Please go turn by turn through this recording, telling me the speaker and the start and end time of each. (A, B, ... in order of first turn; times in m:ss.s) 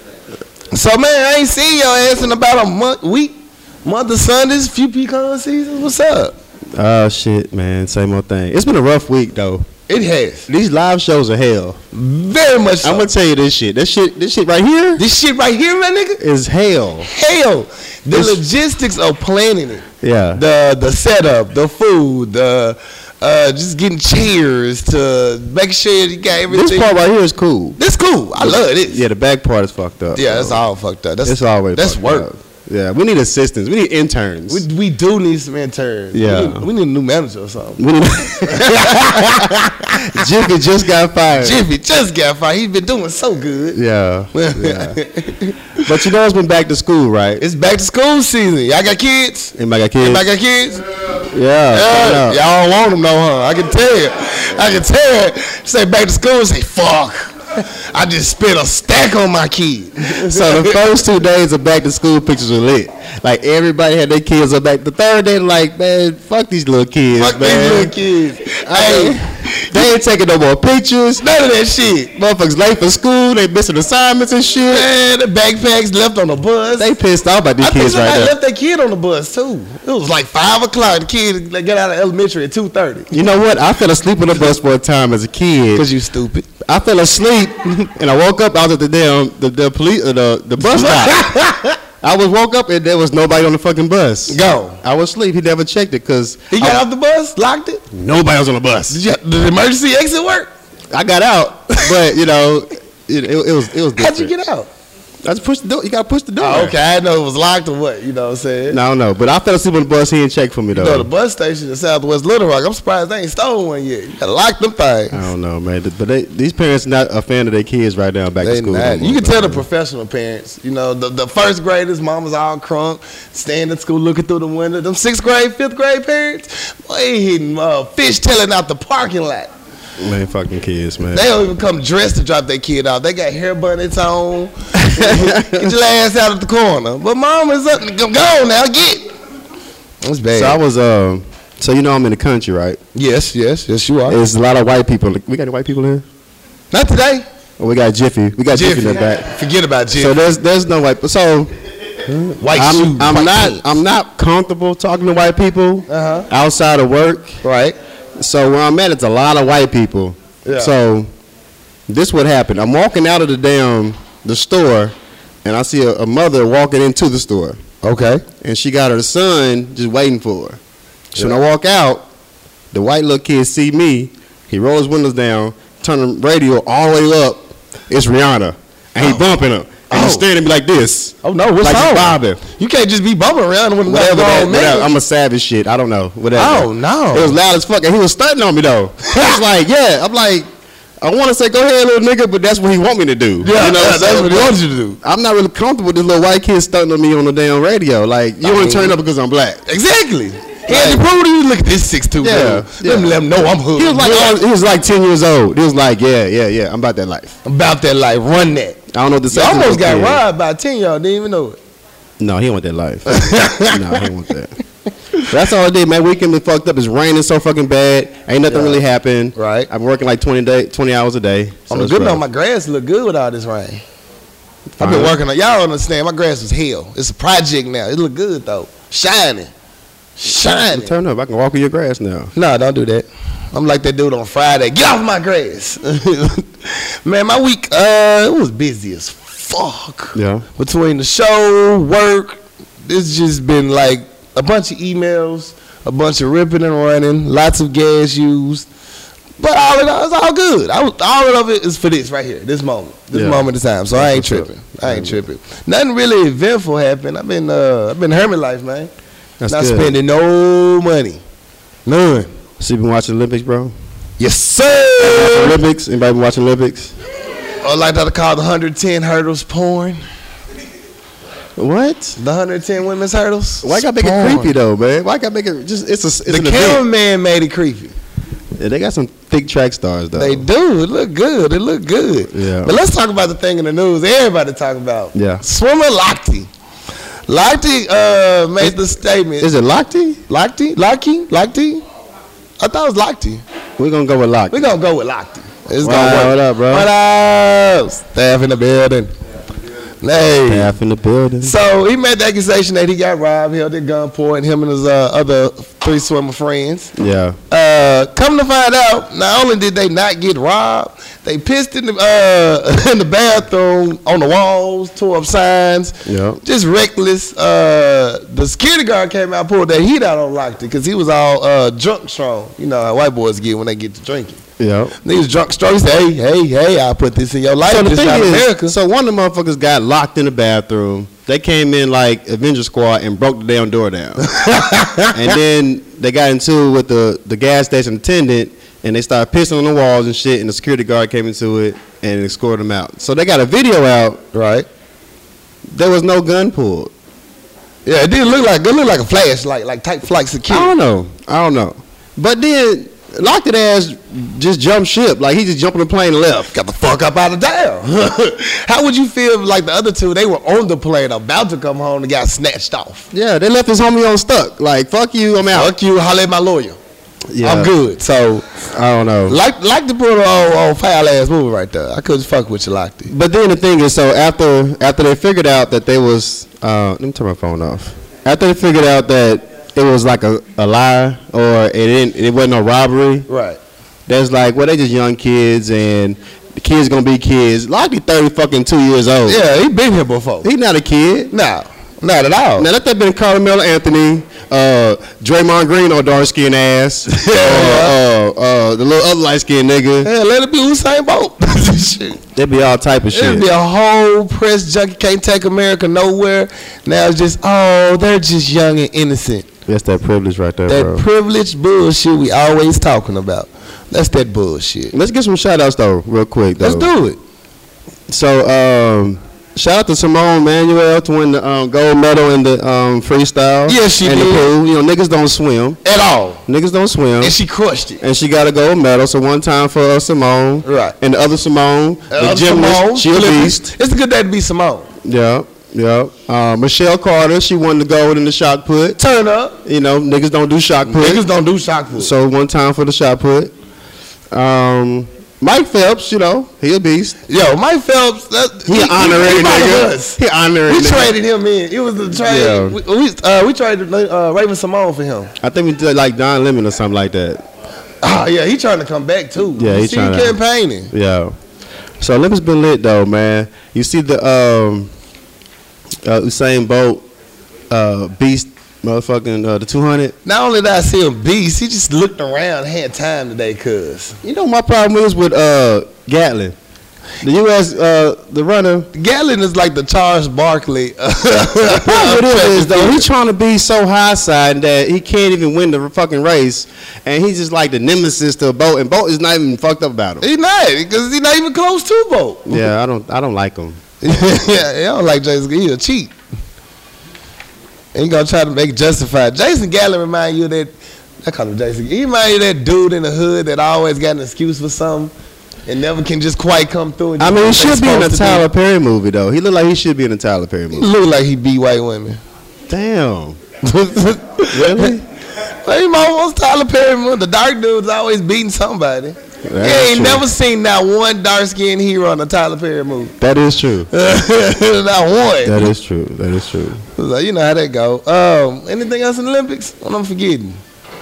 0:00.7-0:06.3 A
0:06.7-0:09.7 B
0:09.9-0:10.5 A
0:10.5-0:11.8 B
0:11.9-0:13.1 A
0:12.8-0:15.0 B
0:15.0-0:16.2 A
0:16.2-0:17.1 B
0:17.1-0:26.9 A
0:18.1-0:18.4 B
0:20.0-0:20.4 B
0:26.5-0:27.8 B
0:27.8-0:29.0 A
0:28.4-0:30.6 B
0:30.2-0:32.3 A
0:31.2-0:34.6 B
0:34.5-0:40.2 A
0:36.1-0:36.7 B
0:37.8-0:39.5 B
0:40.1-0:41.6 B
0:41.4-0:43.8 A
0:43.7-0:45.0 B
0:44.3-0:45.6 A
0:45.8-0:47.4 B
0:47.4-0:50.8 A
0:49.5-0:50.2 B
0:51.3-0:52.4 B
0:51.7-1:00.8 A
1:00.2-1:08.0 B
1:07.1-1:09.9 A
1:08.6-1:11.2 B
1:11.2-1:12.1 A
1:12.1-1:14.9 B
1:14.7-1:16.9 A
1:16.8-1:18.3 B
1:17.6-1:23.1 A
1:23.1-1:25.9 B
1:25.7-1:26.5 A
1:26.6-1:31.4 B
1:30.6-1:31.8 A
1:32.0-1:36.8 B
1:34.3-1:34.8 A
1:36.5-1:37.8 A
1:37.9-1:39.0 B
1:38.9-1:40.5 A
1:40.9-1:44.3 B
1:44.0-1:44.7 A
1:45.2-1:46.8 B
1:46.4-1:48.8 A
1:48.7-1:51.1 B
1:50.7-1:55.2 A
1:55.1-1:59.6 B
1:58.4-2:09.5 A
2:10.0-2:11.3 B
2:11.1-2:19.0 A
2:14.7-2:15.7 B
2:20.0-2:20.6 A
2:20.3-2:22.8 B
2:22.9-2:24.2 A
2:24.1-2:26.0 B
2:26.7-2:27.2 A
2:27.6-2:29.3 B
2:28.5-2:30.2 A
2:29.9-2:31.5 B
2:32.1-2:37.4 B
2:32.4-2:33.6 A
2:35.9-2:36.3 A
2:37.4-2:37.8 A
2:38.2-2:41.1 B
2:40.4-2:40.7 A
2:41.9-2:47.6 B
2:47.8-2:48.2 A
2:48.4-2:50.6 B
2:51.1-2:52.0 B
2:52.7-3:02.4 B
2:59.9-3:00.3 A
3:01.2-3:04.9 A
3:03.8-3:10.4 B
3:06.3-3:07.4 A
3:11.0-3:19.6 B
3:13.4-3:15.0 A
3:18.4-3:19.0 A
3:19.6-3:24.4 A
3:20.7-3:21.0 B
3:22.2-3:27.4 B
3:27.4-3:28.8 A
3:28.9-3:30.2 B
3:29.3-3:31.6 A
3:32.2-3:34.5 B
3:33.1-3:34.1 A
3:35.3-3:42.2 B
3:38.5-3:38.8 A
3:39.3-3:39.7 A
3:41.7-3:43.8 A
3:44.8-3:45.2 B
3:44.8-3:49.5 A
3:50.2-3:50.9 A
3:50.7-3:52.3 B
3:52.3-4:08.6 A
4:00.1-4:00.4 B
4:09.4-4:18.9 A
4:13.1-4:15.2 B
4:19.4-4:20.0 B
4:19.5-4:21.2 A
4:21.8-4:22.3 A
4:22.6-4:23.7 B
4:24.2-4:25.6 A
4:25.0-4:26.9 B
4:27.6-4:30.0 A
4:31.6-4:32.2 B
4:32.2-4:34.5 A
4:33.6-4:36.8 B
4:36.3-4:37.9 A
4:38.6-4:40.4 B
4:40.2-4:46.5 A
4:42.3-4:42.7 B
4:45.1-4:45.4 B
4:47.3-4:49.5 A
4:49.4-4:50.2 B
4:50.3-4:51.8 A
4:52.6-4:53.4 A
4:53.8-4:54.7 B
4:54.5-4:59.1 A
4:55.8-4:56.9 B
5:00.0-5:00.7 A
5:00.5-5:01.6 B
5:01.4-5:06.9 A
5:07.0-5:07.4 B
5:07.5-5:24.4 A
5:16.0-5:16.4 B
5:24.6-5:24.9 B
5:25.0-5:28.7 A
5:27.6-5:34.2 B
5:34.2-5:35.3 A
5:35.1-5:44.2 B
5:44.3-5:44.6 A
5:45.7-5:46.9 B
5:47.8-5:50.7 A
5:50.5-5:56.5 B
5:56.5-6:03.1 A
6:03.1-6:05.7 B
6:05.5-6:06.8 A
6:07.3-6:07.7 B
6:07.4-6:08.4 A
6:08.7-6:09.4 B
6:09.3-6:13.1 A
6:13.1-6:23.2 B
6:23.3-6:23.6 A
6:24.1-6:29.4 B
6:29.2-6:30.5 A
6:30.4-6:31.3 B
6:31.3-6:32.7 A
6:32.6-6:40.1 B
6:37.1-6:38.0 A
6:40.0-6:42.2 A
6:42.3-6:43.5 B
6:43.1-6:49.4 A
6:49.7-6:51.0 B
6:50.7-6:54.9 A
6:54.9-6:56.9 B
6:56.6-6:57.2 A
6:58.1-7:05.8 B
7:03.7-7:04.5 A
7:05.8-7:06.4 A
7:06.4-7:07.4 B
7:07.2-7:08.0 A
7:08.0-7:13.7 B
7:10.6-7:10.9 A
7:12.1-7:14.9 A
7:15.0-7:19.0 B
7:19.0-7:19.6 A
7:19.6-7:21.2 B
7:20.9-7:22.1 A
7:22.0-7:23.5 B
7:24.3-7:27.2 B
7:27.3-7:35.3 A
7:28.7-7:31.1 B
7:32.1-7:32.8 B
7:35.4-7:37.5 B
7:38.0-7:40.9 A
7:39.6-7:40.4 B
7:40.9-7:41.4 B
7:42.0-7:44.9 B
7:46.0-7:47.0 B
7:47.7-7:50.1 B
7:50.2-7:54.2 A
7:54.2-7:56.6 B
7:57.2-7:58.9 B
7:58.9-8:03.1 A
8:01.7-8:10.2 B
8:10.2-8:12.6 A
8:12.4-8:13.8 B
8:14.0-8:16.1 A
8:17.9-8:25.1 A
8:25.7-8:28.4 A
8:27.2-8:30.9 B
8:30.7-8:32.2 A
8:32.7-8:33.4 B
8:33.6-8:35.0 A
8:34.5-8:35.0 B
8:35.6-8:43.2 A
8:39.4-8:40.2 B
8:43.2-8:43.9 B
8:43.9-8:45.6 A
8:45.4-8:46.8 B
8:47.0-8:50.6 A